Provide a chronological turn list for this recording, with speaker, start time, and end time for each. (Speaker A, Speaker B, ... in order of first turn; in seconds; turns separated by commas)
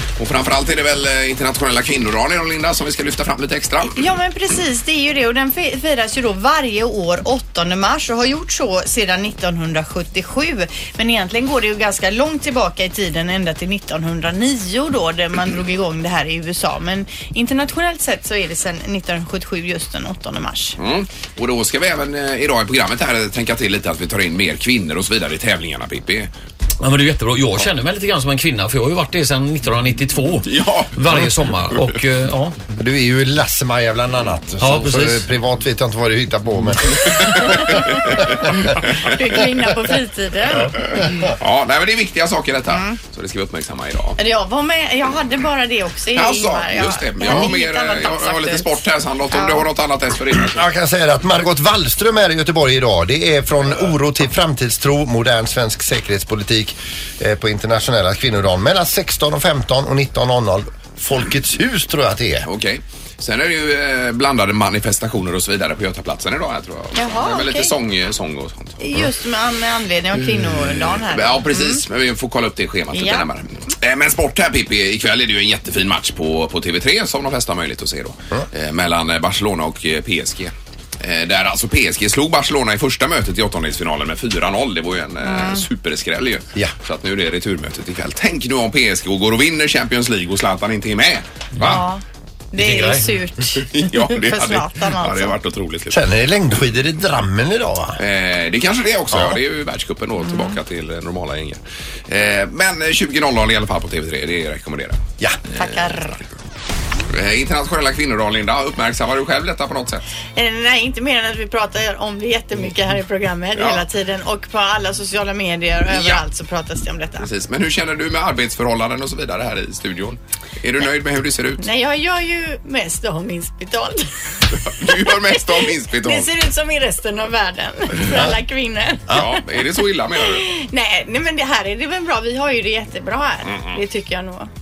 Speaker A: 0.2-4.0, Speaker B: 3.9-20.8, Speaker A: 20.8-26.3, Speaker C: 26.8-30.4, Speaker A: 30.4-31.9, Speaker C: 30.9-32.6, Speaker D: 32.7-37.8, Speaker C: 34.6-35.2, Speaker A: 37.0-37.4, Speaker B: 37.4-37.9, Speaker A: 38.0-39.1, Speaker B: 39.0-40.8, Speaker A: 40.9-44.2, Speaker B: 42.7-43.0, Speaker B: 44.2-49.7, Speaker A: 46.1-50.7, Speaker D: 50.4-62.5, Speaker A: 62.5-68.8, Speaker B: 66.9-67.7, Speaker B: 68.8-71.8, Speaker A: 70.9-91.8, Speaker B: 72.9-73.3, Speaker B: 85.2-85.6, Speaker B: 91.6-92.0, Speaker B: 92.5-95.4, Speaker C: 92.6-92.9, Speaker A: 93.5-96.0, Speaker D: 95.9-98.0, Speaker A: 98.0-106.2, Speaker D: 99.1-99.4, Speaker B: 100.2-100.5, Speaker B: 105.5-106.2, Speaker A: 107.1-110.0, Speaker B: 110.3-117.3, Speaker A: 113.5-113.8, Speaker A: 115.9-116.2, Speaker A: 117.2-121.7, Speaker B: 121.6-129.4, Speaker A: 124.6-126.3, Speaker D: 128.1-128.3, Speaker A: 129.1-130.4, Speaker B: 130.1-134.5, Speaker A: 133.4-133.8